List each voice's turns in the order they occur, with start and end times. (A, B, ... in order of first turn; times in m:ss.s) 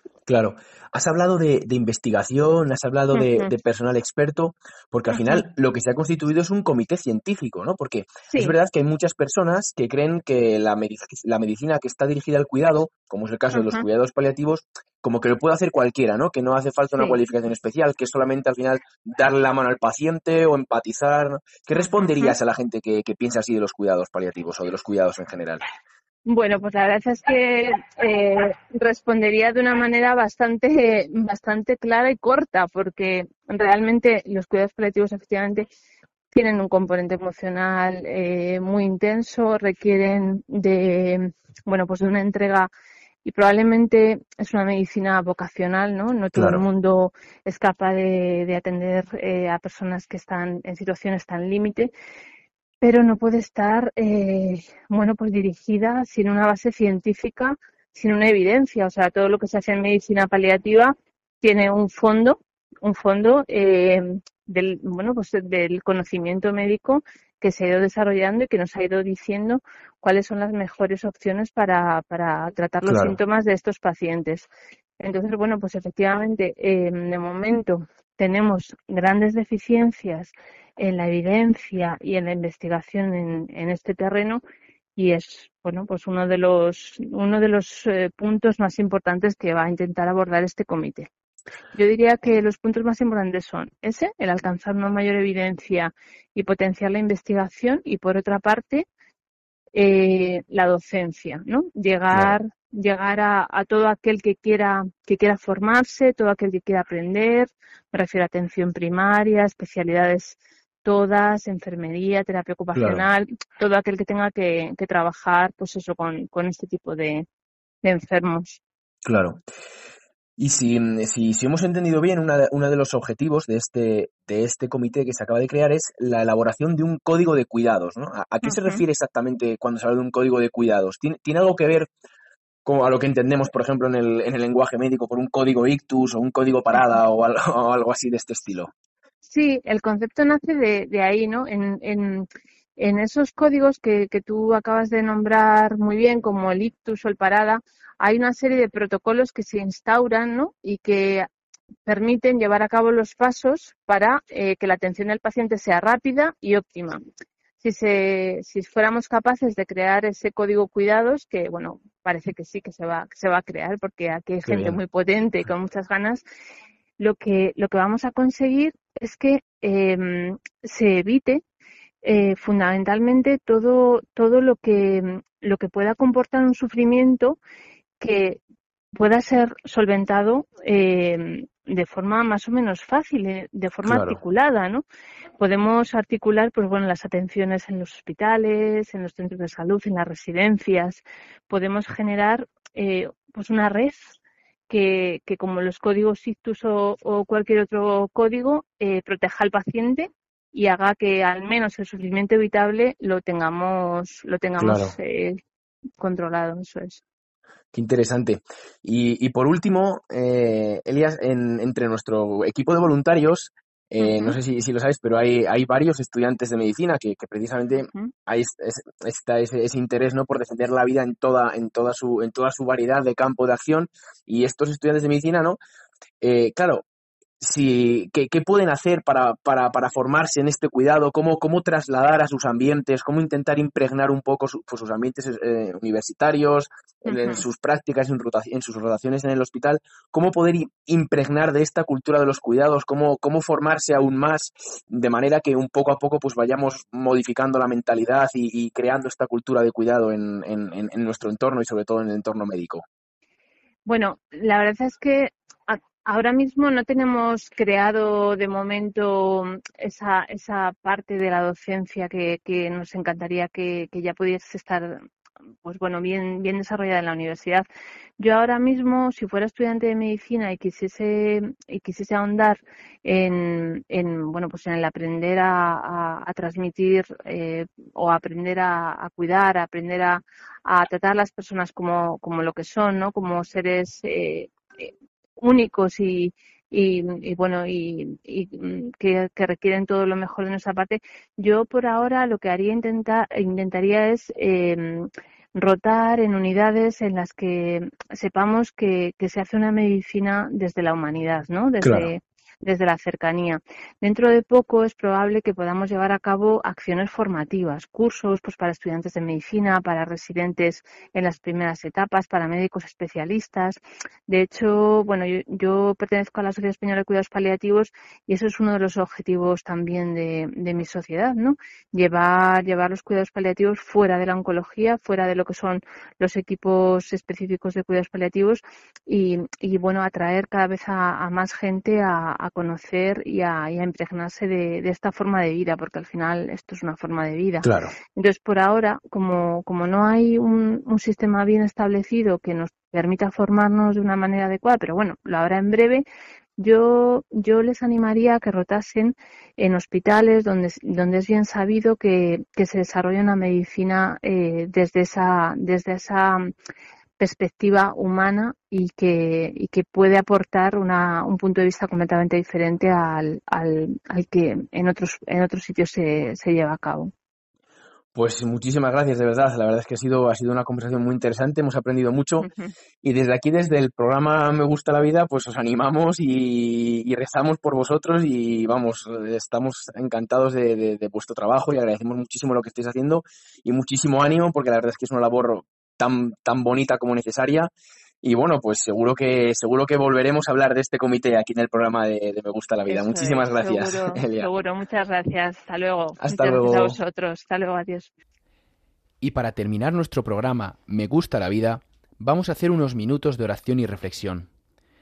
0:00.2-0:25.6 A
0:03.1-0:03.5 B
0:05.1-0:05.4 B
0:08.3-0:08.5 B
0:13.5-0:13.8 B
0:21.7-0:22.4 B
0:26.2-0:35.7 B
0:36.3-0:42.7 B
0:43.2-0:51.9 B
0:46.3-0:46.6 A
0:52.8-1:24.4 B
1:12.8-1:13.2 A
1:25.0-1:31.1 B
1:31.7-1:38.8 B
1:39.7-1:57.3 B
1:42.1-1:42.4 A
1:52.7-1:53.0 A
1:57.8-1:58.6 B
1:59.0-1:59.4 A
2:00.4-2:11.9 A
2:08.4-2:08.8 B
2:12.6-2:18.7 A
2:19.3-2:31.3 B
2:31.8-2:37.0 B
2:37.6-2:46.2 B
2:44.4-2:44.8 A
2:47.0-2:51.4 B
2:52.0-2:57.4 B
2:58.0-2:58.4 B
2:58.9-3:04.8 B
3:03.8-3:04.2 A
3:05.4-3:14.2 B
3:14.7-3:25.4 B
3:24.6-3:24.9 A
3:26.0-3:27.0 B
3:27.7-3:45.6 A
3:34.0-3:34.4 B
3:46.2-3:46.8 A
3:47.4-4:12.8 A
3:57.1-3:57.4 B
4:13.8-4:25.0 B
4:25.6-4:27.6 B
4:28.2-5:46.1 B
5:01.8-5:02.1 A
5:37.6-5:37.9 A
5:46.6-5:56.5 B
5:57.2-6:07.1 B
6:08.1-6:12.5 A
6:12.4-6:12.7 B
6:13.0-6:27.7 A
6:28.2-6:34.5 A
6:32.9-6:38.1 B
6:36.2-6:37.0 A
6:39.2-6:44.5 C